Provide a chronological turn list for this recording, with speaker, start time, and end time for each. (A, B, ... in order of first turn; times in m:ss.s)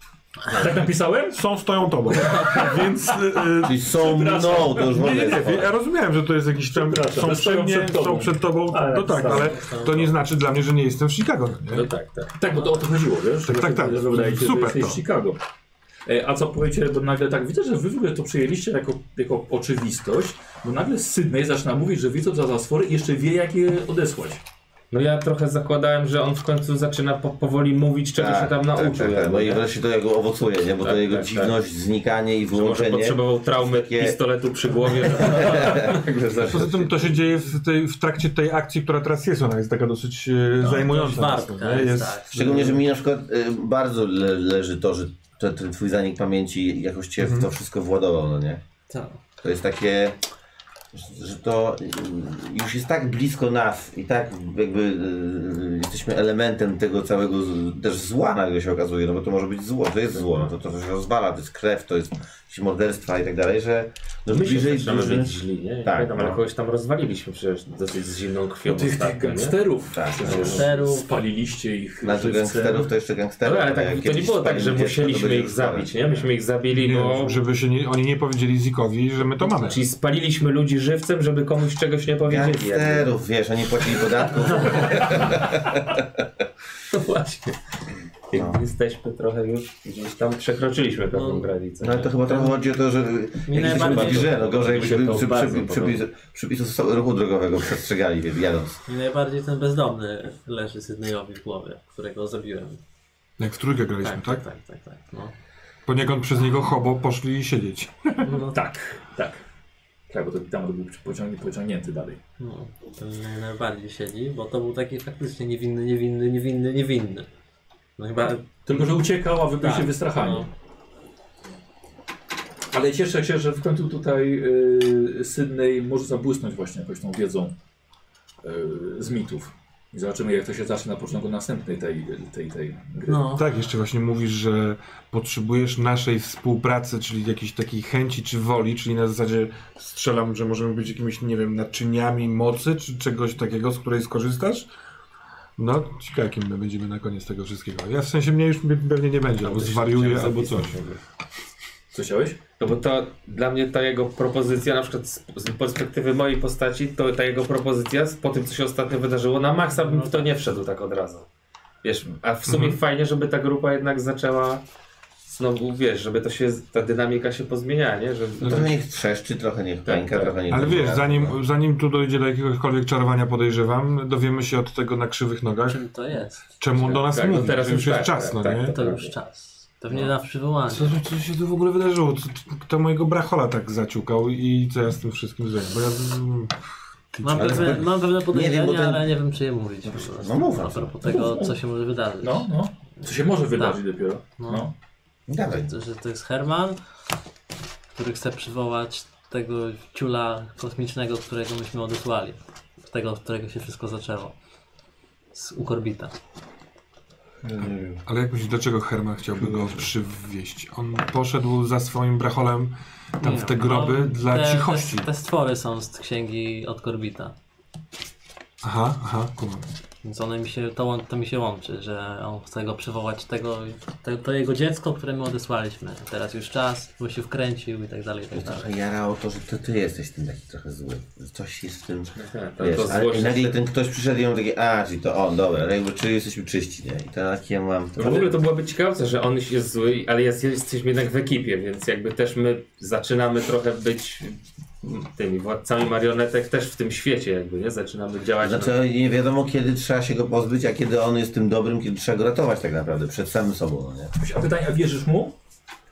0:00.5-0:01.4 A
0:01.3-0:03.8 B
0:02.0-0:05.1 A
0:03.6-0:05.7 C
0:04.8-0:11.9 B
0:06.6-0:09.8 A
0:09.1-0:10.1 D
0:11.7-0:12.3 E
0:12.3-0:15.4 A
0:13.4-0:15.0 B
0:16.0-0:24.4 A
0:24.9-0:29.7 E
0:28.2-0:34.3 C
0:30.8-0:31.6 E
0:32.5-0:36.8 E
0:34.8-0:36.8 C
0:36.5-0:42.7 B
0:40.6-0:41.0 A
0:40.8-0:42.4 D
0:42.3-0:48.6 C
0:47.2-0:47.5 B
0:48.9-0:49.2 D
0:49.4-0:50.2 C
0:50.9-1:06.4 C
1:04.3-1:09.6 E
1:08.6-1:12.9 A
1:09.9-1:10.7 C
1:10.2-1:10.7 E
1:10.5-1:11.1 D
1:12.0-1:16.3 C
1:13.4-1:17.4 E
1:16.7-1:19.8 B
1:19.5-1:23.2 E
1:22.3-1:25.9 C
1:24.8-1:25.4 E
1:26.9-1:27.6 E
1:28.3-1:32.2 E
1:28.3-1:28.6 C
1:31.1-1:31.5 D
1:31.8-1:38.8 C
1:33.5-1:36.0 D
1:33.8-1:35.2 E
1:38.9-1:42.8 D
1:43.4-1:44.4 B
1:44.0-1:45.3 D
1:45.9-1:48.3 B
1:48.2-1:48.6 D
1:48.4-1:49.4 A
1:50.1-1:52.2 A
1:52.4-1:57.3 D
1:58.0-1:59.0 D
1:58.7-2:00.5 A
1:59.6-2:00.5 D
2:02.7-2:07.5 A
2:08.4-2:13.3 A
2:13.1-2:13.5 D
2:13.3-2:24.7 B
2:25.6-2:30.8 B
2:29.4-2:31.0 E
2:31.9-2:32.4 A
2:32.6-2:41.3 E
2:39.7-2:40.4 D
2:41.8-2:44.6 E
2:42.5-2:42.8 B
2:45.2-2:48.7 E
2:48.4-2:51.4 C
2:48.4-2:48.7 B
2:49.8-2:50.4 E
2:50.5-2:55.8 B
2:55.6-2:56.4 D
2:56.6-2:58.8 B
2:56.7-2:59.1 E
2:58.7-3:01.0 D
3:00.7-3:06.5 B
3:07.1-3:07.8 B
3:07.2-3:12.5 D
3:07.3-3:09.2 C
3:09.8-3:11.2 C
3:11.0-3:11.6 A
3:12.2-3:14.7 A
3:13.5-3:14.7 D
3:15.3-3:15.8 C
3:15.6-3:16.8 D
3:18.0-3:24.3 D
3:25.3-3:26.1 D
3:27.4-3:28.0 C
3:28.1-3:35.1 B
3:33.2-3:37.3 D
3:38.6-3:39.7 B
3:40.0-3:48.7 D
3:48.3-3:58.3 C
3:52.2-3:53.6 E
3:58.0-4:08.8 E
4:08.4-4:14.1 C
4:14.2-4:15.4 A